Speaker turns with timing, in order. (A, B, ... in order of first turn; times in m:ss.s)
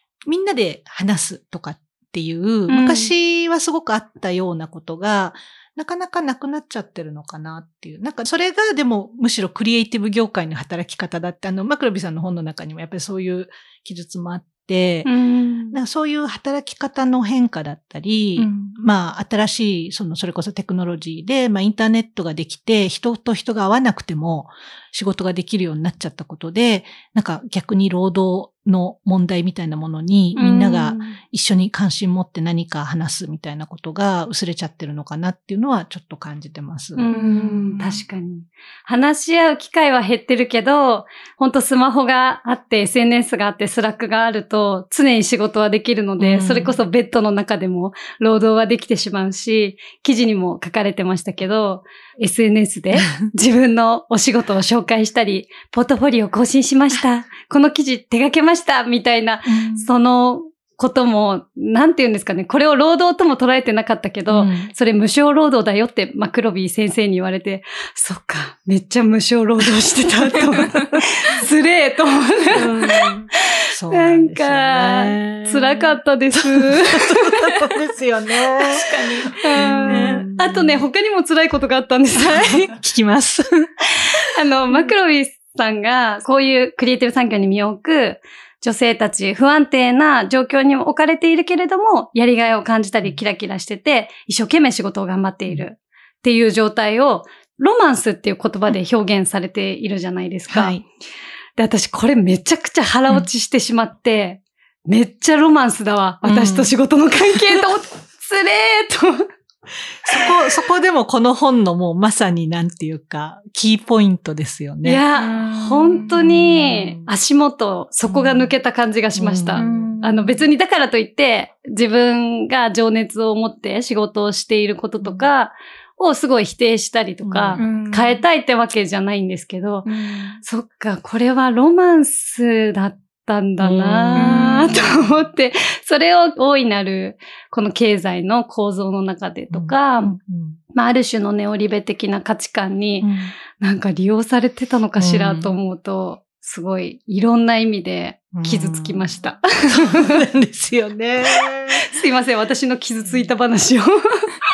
0:00.3-0:15.1 A
0:02.7-0:03.1 B
0:15.0-0:15.8 B
0:15.7-0:38.0 A
0:18.4-0:18.8 C
0:30.4-0:31.2 B
0:37.0-1:12.6 B
0:37.1-0:37.8 C
0:46.2-0:46.8 A
0:59.4-0:59.9 A
1:04.3-1:04.7 A
1:12.6-1:13.1 C
1:12.6-1:20.8 A
1:13.9-1:17.2 B
1:18.6-1:20.3 C
1:19.4-1:22.6 B
1:22.2-1:23.7 A
1:24.0-1:40.8 B
1:40.5-1:40.8 A
1:41.6-1:49.3 B
1:46.2-1:46.8 A
1:50.0-1:55.0 A
1:54.8-2:09.9 B
1:55.2-1:56.2 C
1:56.0-1:57.1 A
1:58.1-1:58.5 A
1:59.2-2:00.4 A
1:59.6-2:00.2 C
2:07.2-2:07.7 A
2:07.6-2:08.2 C
2:09.8-2:10.4 C
2:10.4-2:20.2 B
2:13.6-2:15.2 A
2:14.2-2:14.8 C
2:19.5-2:20.6 A
2:20.7-2:30.1 B
2:23.0-2:23.4 A
2:25.0-2:25.6 A
2:28.3-2:29.2 A
2:29.7-2:31.8 A
2:31.8-2:34.3 B
2:33.0-2:33.3 A